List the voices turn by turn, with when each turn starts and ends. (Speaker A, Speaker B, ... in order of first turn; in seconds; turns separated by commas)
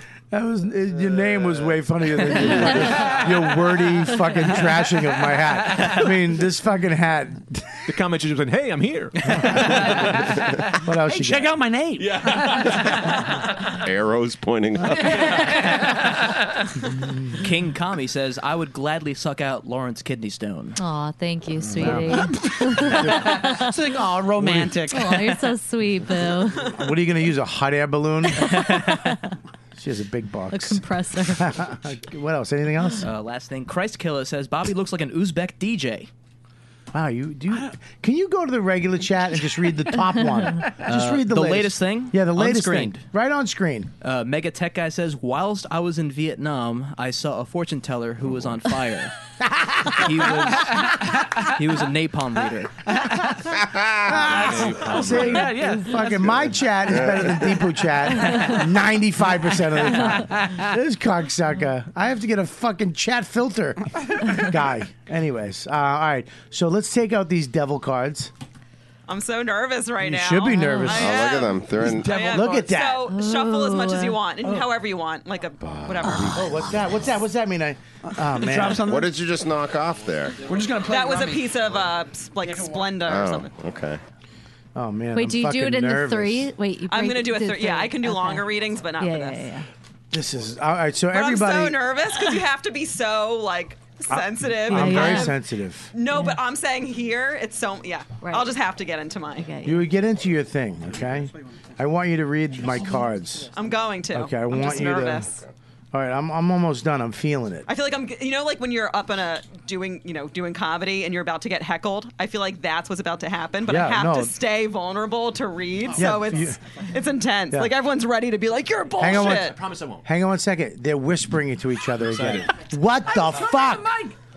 Speaker A: 0.3-7.7, Speaker B: 7.9-10.3, Speaker A: 9.4-10.0, Speaker A: 10.7-11.6, Speaker C: 11.1-12.8, Speaker B: 12.0-13.1, Speaker D: 13.8-15.5, Speaker B: 15.4-16.0, Speaker E: 17.4-20.8, Speaker F: 20.8-23.6, Speaker A: 21.8-23.6, Speaker C: 22.2-25.4, Speaker A: 24.4-24.8, Speaker F: 24.9-26.6, Speaker A: 26.7-28.9, Speaker E: 28.5-28.8, Speaker F: 28.8-29.2, Speaker A: 29.8-30.8, Speaker F: 30.5-31.6, Speaker A: 31.4-33.1, Speaker E: 33.0-36.1, Speaker A: 36.9-43.9, Speaker E: 40.8-43.1, Speaker E: 44.0-49.1, Speaker E: 49.9-52.7, Speaker C: 50.6-51.0, Speaker C: 53.0-53.3, Speaker D: 53.6-54.2, Speaker A: 54.0-68.3, Speaker B: 54.2-55.5, Speaker C: 54.8-56.4, Speaker D: 56.9-57.5, Speaker C: 59.9-60.7, Speaker G: 69.1-76.4, Speaker A: 70.0-71.2, Speaker D: 70.9-72.3, Speaker C: 71.8-72.8, Speaker A: 72.1-73.0, Speaker F: 73.1-74.2, Speaker D: 75.6-76.4, Speaker A: 76.3-78.9, Speaker C: 78.1-79.1, Speaker D: 78.8-80.4, Speaker C: 80.4-81.5, Speaker G: 80.8-83.5, Speaker C: 82.4-83.0, Speaker D: 83.0-84.0, Speaker A: 84.7-86.5, Speaker F: 85.1-89.7, Speaker G: 86.9-89.4, Speaker A: 90.1-91.8, Speaker G: 91.1-95.4, Speaker A: 94.1-95.9, Speaker F: 94.7-95.3, Speaker G: 95.9-99.6, Speaker F: 96.1-96.4, Speaker F: 98.2-98.5, Speaker F: 99.4-99.8, Speaker A: 99.6-103.5, Speaker G: 103.5-105.3, Speaker A: 104.1-105.3, Speaker A: 105.9-107.7, Speaker G: 107.7-119.6, Speaker A: 113.6-114.3, Speaker A: 115.9-116.6, Speaker A: 119.0-123.9, Speaker B: 119.1-120.0, Speaker B: 122.0-122.5, Speaker C: 123.0-124.1